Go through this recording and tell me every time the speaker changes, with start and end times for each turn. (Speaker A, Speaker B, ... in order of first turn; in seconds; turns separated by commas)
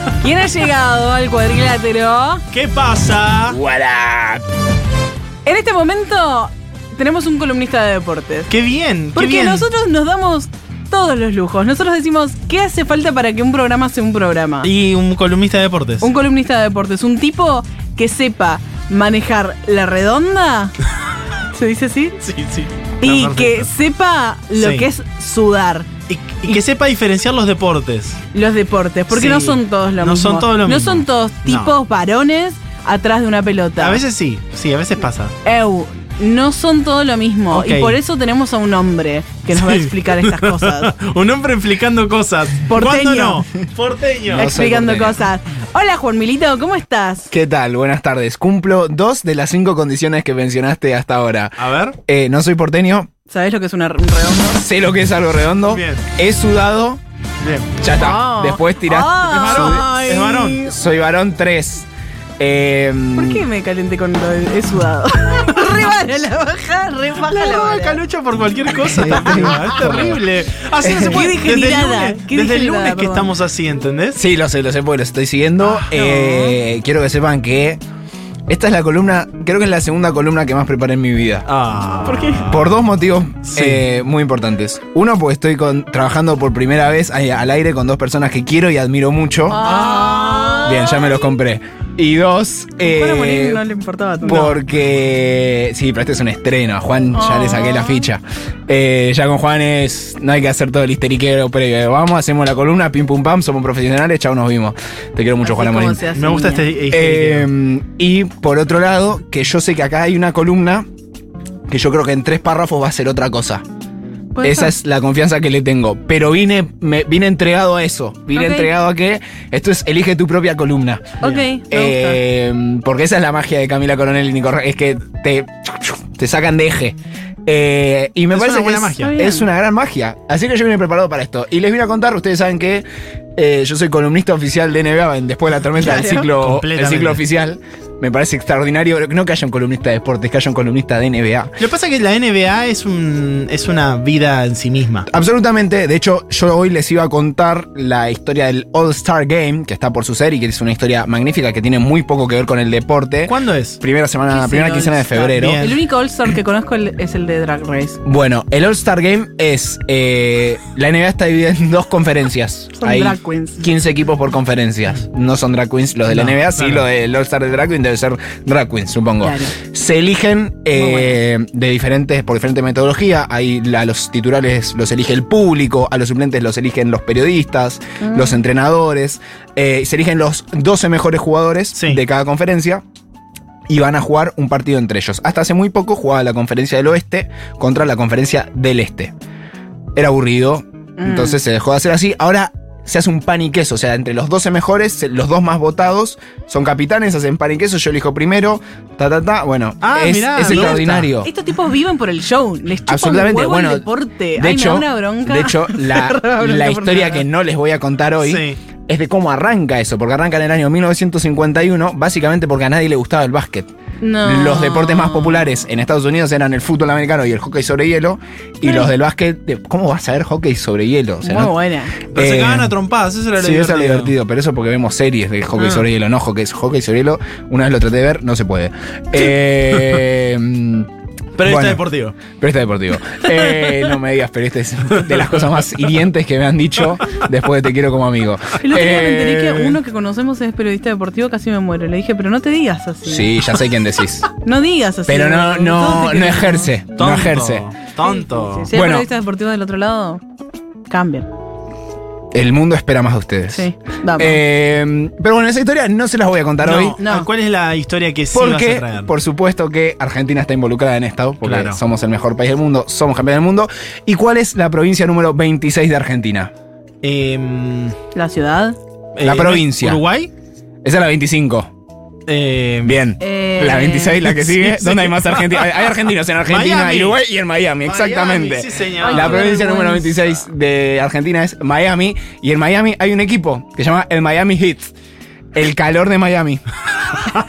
Speaker A: 0.2-2.4, Speaker B: 2.5-3.6, Speaker C: 3.5-4.4, Speaker A: 5.4-8.5, Speaker B: 8.5-9.7, Speaker A: 9.1-14.7, Speaker B: 14.6-16.1, Speaker A: 16.0-20.7, Speaker A: 21.5-22.2, Speaker B: 22.2-23.7, Speaker A: 23.0-25.9, Speaker B: 24.6-24.9, Speaker B: 26.1-28.2, Speaker A: 28.3-34.0, Speaker B: 29.1-31.7, Speaker B: 33.8-35.3, Speaker A: 35.4-40.9, Speaker B: 37.5-38.0, Speaker B: 39.5-44.5, Speaker A: 42.6-43.5, Speaker C: 44.3-45.2, Speaker A: 44.3-47.3, Speaker C: 47.3-53.1, Speaker B: 51.6-52.0, Speaker A: 53.3-54.6, Speaker C: 54.5-57.0, Speaker B: 55.6-56.0, Speaker B: 57.4-57.7, Speaker C: 57.8-59.9, Speaker A: 57.9-60.8, Speaker B: 59.2-60.6, Speaker C: 60.6-61.9, Speaker C: 62.4-63.4, Speaker A: 63.1-68.0, Speaker B: 67.2-74.2, Speaker A: 68.9-70.1, Speaker C: 69.0-70.2, Speaker C: 70.8-71.3, Speaker A: 70.8-73.3, Speaker C: 74.1-77.8, Speaker A: 75.6-76.6, Speaker C: 78.5-81.5, Speaker B: 81.5-82.7, Speaker A: 82.0-82.5, Speaker C: 82.5-89.6, Speaker B: 83.5-83.8, Speaker A: 89.5-91.2, Speaker B: 89.6-90.7, Speaker C: 90.6-93.6, Speaker A: 92.8-94.6, Speaker C: 94.2-106.0, Speaker A: 97.1-98.1, Speaker A: 105.4-106.7, Speaker B: 106.1-107.5, Speaker C: 106.9-110.9, Speaker C: 111.7-113.6, Speaker A: 114.3-114.7, Speaker C: 114.4-121.1, Speaker A: 118.3-118.7, Speaker A: 121.2-122.2, Speaker C: 121.7-132.8, Speaker B: 128.3-129.2, Speaker A: 129.0-129.5, Speaker C: 133.3-141.6, Speaker A: 135.8-136.3, Speaker B: 135.8-137.2, Speaker B: 141.6-145.1, Speaker C: 145.1-155.7, Speaker B: 153.3-153.8, Speaker A: 154.3-158.0, Speaker B: 155.3-155.8, Speaker C: 158.0-182.8, Speaker A: 162.8-163.7, Speaker B: 166.1-166.8, Speaker A: 169.2-169.5, Speaker A: 170.8-171.2, Speaker A: 178.0-178.4, Speaker B: 181.7-182.0, Speaker C: 183.7-189.1, Speaker C: 189.9-201.3, Speaker A: 191.0-191.4, Speaker B: 199.8-201.1, Speaker A: 200.5-207.2, Speaker C: 202.9-213.7, Speaker B: 208.2-208.6, Speaker A: 214.0-215.6, Speaker C: 214.2-221.5, Speaker A: 221.2-221.9, Speaker B: 222.1-224.1, Speaker C: 222.1-222.7, Speaker C: 223.3-230.9, Speaker B: 225.6-225.8, Speaker B: 231.4-232.2, Speaker C: 231.4-239.8, Speaker A: 238.6-243.6, Speaker C: 243.0-244.3, Speaker A: 244.4-246.7, Speaker C: 245.1-247.7, Speaker B: 246.9-248.7, Speaker A: 248.6-250.2, Speaker C: 248.7-249.1, Speaker A: 250.9-251.3, Speaker C: 252.3-253.6, Speaker A: 253.5-254.4, Speaker C: 254.2-257.0, Speaker B: 256.6-259.1, Speaker A: 257.0-257.3, Speaker C: 258.3-266.5, Speaker B: 261.4-261.8, Speaker B: 267.0-267.9, Speaker A: 268.1-268.8, Speaker B: 269.1-270.3, Speaker C: 269.2-270.0, Speaker C: 270.8-271.7, Speaker B: 272.3-273.0, Speaker C: 272.8-284.9, Speaker A: 273.2-274.4, Speaker B: 274.4-275.8, Speaker B: 276.5-277.2, Speaker B: 277.8-279.4, Speaker A: 279.0-280.2, Speaker C: 285.5-286.6